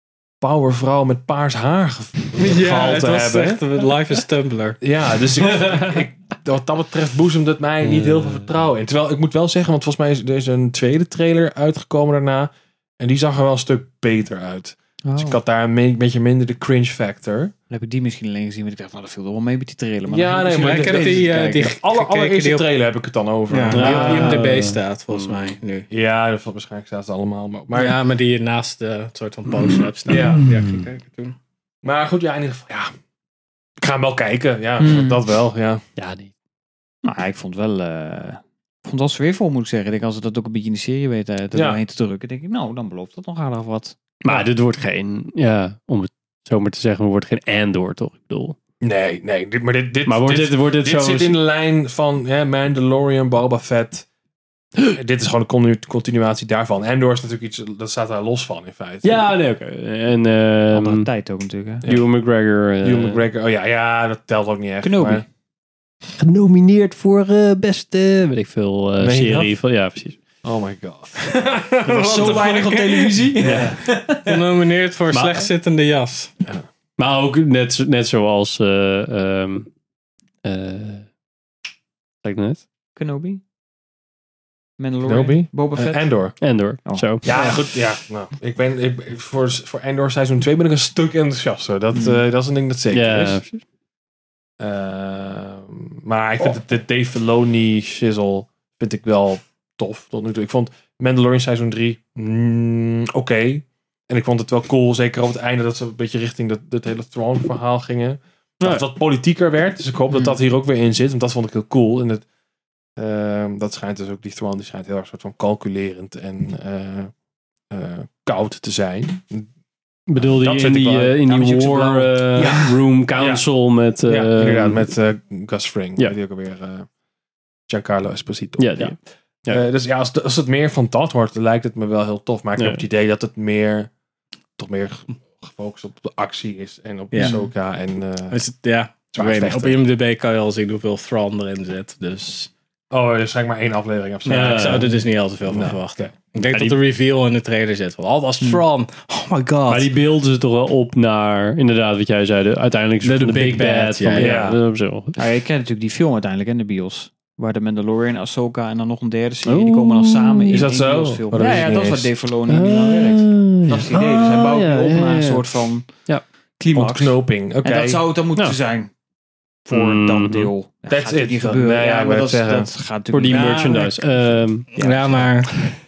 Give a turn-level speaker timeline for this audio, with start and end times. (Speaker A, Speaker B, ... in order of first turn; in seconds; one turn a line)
Speaker A: 0.4-3.6
Speaker B: 2.4-4.8
Speaker A: 4.8-17.5
Speaker C: 7.8-8.5
Speaker D: 15.1-15.4
Speaker D: 17.7-21.7
Speaker A: 20.1-24.5
Speaker B: 20.5-22.6
Speaker B: 23.5-25.9
Speaker C: 23.7-25.4
Speaker A: 25.9-28.0
Speaker B: 27.7-31.4
Speaker C: 29.6-30.8
Speaker A: 30.1-30.5
Speaker A: 31.8-32.9
Speaker A: 33.8-35.8
Speaker D: 34.8-35.2
Speaker C: 36.0-36.3
Speaker D: 37.0-44.0
Speaker A: 41.5-41.8
Speaker C: 44.2-48.5
Speaker A: 48.8-54.1
Speaker C: 50.0-51.4
Speaker A: 54.9-59.2
Speaker C: 59.0-61.1
Speaker D: 60.7-61.8
Speaker A: 61.8-62.1
Speaker C: 61.8-63.2
Speaker A: 62.8-65.2
Speaker D: 64.8-65.2
Speaker C: 66.2-70.2
Speaker A: 69.0-69.5
Speaker A: 70.4-72.7
Speaker D: 71.9-74.4
Speaker B: 72.0-73.6
Speaker A: 73.3-73.9
Speaker C: 73.4-73.8
Speaker B: 74.2-76.3
Speaker C: 75.1-75.5
Speaker C: 77.0-79.7
Speaker C: 80.4-81.0
Speaker C: 82.2-82.6
Speaker D: 83.0-83.4
Speaker D: 84.8-86.1
Speaker A: 85.0-86.4
Speaker C: 86.4-87.2
Speaker A: 87.2-93.4
Speaker B: 87.3-87.5
Speaker D: 91.9-92.2
Speaker C: 92.9-93.6
Speaker A: 94.6-112.2
Speaker D: 110.1-110.4
Speaker A: 113.0-117.1
Speaker A: 117.7-119.5
Speaker C: 120.1-124.9
Speaker A: 120.2-123.5
Speaker A: 124.0-126.9
Speaker A: 127.7-128.9
Speaker C: 128.6-129.6
Speaker A: 129.5-133.9
Speaker C: 132.6-132.8
Speaker A: 134.6-138.4
Speaker B: 137.1-137.4
Speaker D: 137.2-137.5
Speaker B: 138.3-142.5
Speaker A: 139.1-139.8
Speaker A: 142.9-144.9
Speaker B: 144.2-149.9
Speaker C: 144.3-144.8
Speaker A: 145.5-146.1
Speaker C: 146.5-146.8
Speaker C: 149.7-155.2
Speaker B: 153.0-154.3
Speaker A: 154.1-154.6
Speaker D: 155.2-166.1
Speaker C: 159.4-160.7
Speaker A: 160.5-162.1
Speaker C: 162.5-166.2
Speaker D: 166.6-168.9
Speaker A: 166.7-168.0
Speaker D: 169.7-173.7
Speaker C: 169.7-170.5
Speaker A: 170.9-172.7
Speaker C: 173.1-174.7
Speaker B: 173.3-174.0
Speaker B: 174.7-175.6
Speaker D: 174.7-175.3